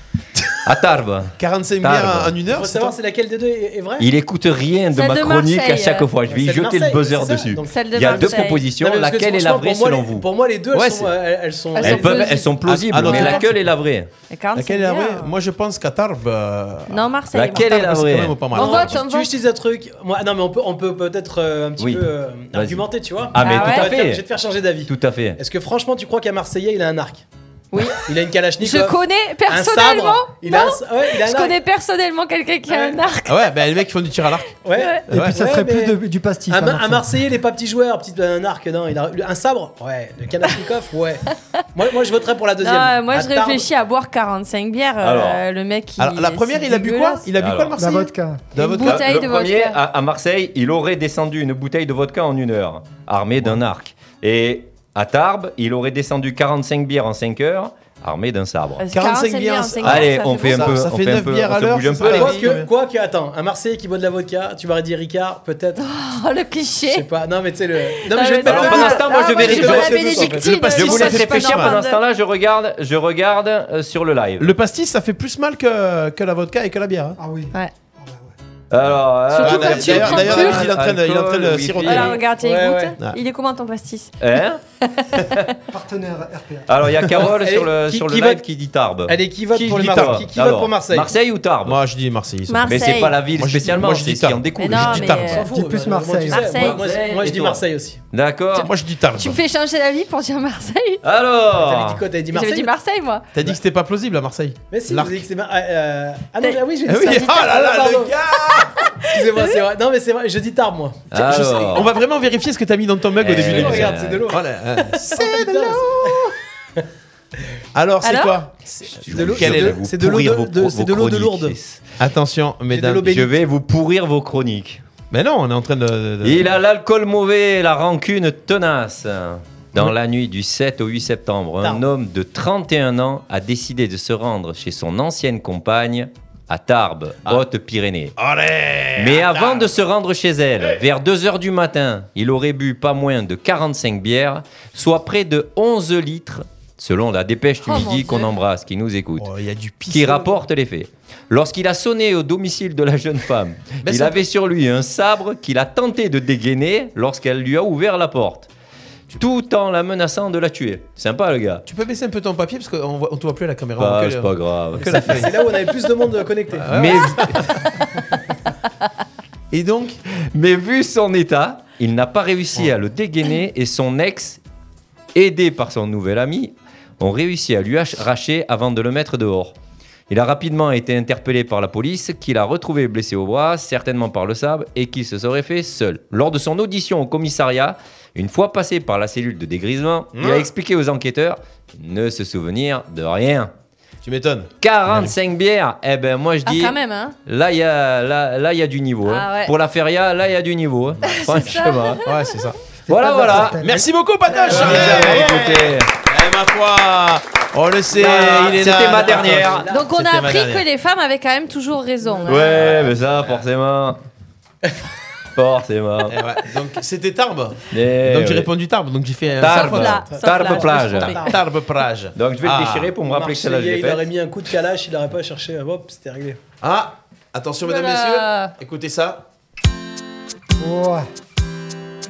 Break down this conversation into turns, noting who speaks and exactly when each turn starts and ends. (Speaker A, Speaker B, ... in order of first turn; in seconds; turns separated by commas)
Speaker A: 0.7-2.4, Speaker B: 1.4-3.0, Speaker C: 2.5-4.1, Speaker A: 4.0-10.3, Speaker D: 4.9-6.1, Speaker C: 6.3-13.4, Speaker D: 7.6-8.7, Speaker B: 10.7-11.1, Speaker D: 11.7-12.5, Speaker A: 11.8-14.1, Speaker B: 12.6-13.6, Speaker D: 13.1-13.4, Speaker D: 14.3-15.3, Speaker B: 14.6-19.0, Speaker D: 16.9-17.8, Speaker A: 17.3-18.4, Speaker D: 18.5-19.3, Speaker C: 18.6-27.2, Speaker A: 21.8-24.2, Speaker D: 23.4-23.9, Speaker A: 24.9-25.4, Speaker D: 27.7-28.0, Speaker C: 28.0-31.6, Speaker D: 28.6-33.4, Speaker C: 32.7-33.0, Speaker B: 33.3-34.5, Speaker C: 34.6-36.0, Speaker D: 34.7-35.0, Speaker E: 35.1-37.2, Speaker B: 35.1-35.4, Speaker C: 36.5-43.6, Speaker D: 42.6-47.2, Speaker A: 45.0-45.4, Speaker B: 46.0-49.1, Speaker A: 47.4-47.8, Speaker E: 47.8-48.5, Speaker D: 48.5-49.8, Speaker A: 48.8-58.8, Speaker D: 58.8-60.8, Speaker B: 58.9-62.7, Speaker A: 59.8-62.5, Speaker C: 62.0-65.8, Speaker D: 65.8-67.0, Speaker C: 66.9-70.9, Speaker D: 68.0-72.0, Speaker A: 68.4-70.1, Speaker B: 69.6-71.8, Speaker A: 70.7-74.5, Speaker B: 74.4-77.2, Speaker E: 77.2-78.3, Speaker A: 78.7-82.2, Speaker D: 79.3-80.7, Speaker B: 79.4-82.2, Speaker D: 81.8-84.1, Speaker C: 82.3-83.0, Speaker A: 84.2-84.6, Speaker D: 84.9-85.3, Speaker E: 85.7-87.1, Speaker A: 86.7-91.8, Speaker C: 87.3-88.4, Speaker C: 89.0-91.1, Speaker B: 89.6-90.2, Speaker B: 91.6-92.7, Speaker D: 92.5-93.2, Speaker A: 92.6-95.5, Speaker B: 93.4-95.5, Speaker D: 94.6-95.5, Speaker C: 95.2-98.0, Speaker E: 95.5-96.4, Speaker D: 96.2-96.8, Speaker A: 96.5-98.7, Speaker D: 98.5-101.0, Speaker B: 98.6-99.4, Speaker A: 101.0-102.0, Speaker C: 101.5-102.7, Speaker D: 102.3-103.2, Speaker B: 103.3-105.2, Speaker C: 104.7-108.1, Speaker D: 106.4-107.5, Speaker B: 106.9-108.8, Speaker D: 108.5-109.4, Speaker C: 109.0-111.8, Speaker A: 111.1-111.9, Speaker B: 111.1-116.3, Speaker A: 113.2-114.3, Speaker C: 113.2-114.4, Speaker C: 115.1-116.8, Speaker B: 117.7-119.8, Speaker D: 118.0-118.4, Speaker C: 118.7-121.6, Speaker A: 119.0-121.8, Speaker B: 122.0-123.2, Speaker C: 122.7-123.4, Speaker A: 123.0-124.8, Speaker B: 125.1-126.5, Speaker A: 126.2-138.1, Speaker B: 138.2-139.7, Speaker A: 139.0-149.3, Speaker D: 147.6-148.3, Speaker B: 149.2-150.4, Speaker A: 149.9-158.5, Speaker B: 153.8-154.2, Speaker A: 159.2-161.6, Speaker B: 161.7-165.3, Speaker A: 163.8-165.2, Speaker C: 164.8-167.5, Speaker B: 166.6-167.5, Speaker A: 166.7-167.2, Speaker B: 169.5-170.0, Speaker A: 170.3-174.4, Speaker A: 175.1-179.6, Speaker A: 180.1-193.5, Speaker B: 190.1-190.5, Speaker B: 194.0-195.1, Speaker A: 194.6-202.1, Speaker D: 196.4-197.1, Speaker D: 199.1-199.5, Speaker D: 201.0-202.0, Speaker B: 202.0-202.6, Speaker E: 202.9-203.9, Speaker A: 202.9-203.7, Speaker B: 203.1-210.6, Speaker C: 204.3-205.6, Speaker A: 204.5-205.9, Speaker C: 207.9-209.9, Speaker A: 208.0-209.7, Speaker D: 209.7-212.6, Speaker C: 212.1-212.4, Speaker A: 212.3-214.0, Speaker B: 212.6-213.4, Speaker A: 215.4-216.2, Speaker B: 216.1-220.0, Speaker A: 217.7-218.5, Speaker A: 219.4-221.2, Speaker D: 219.4-221.3, Speaker C: 220.1-221.4, Speaker B: 221.2-222.9, Speaker A: 222.1-224.1, Speaker C: 223.0-226.4, Speaker B: 226.6-229.2, Speaker D: 227.6-228.5, Speaker E: 230.6-231.1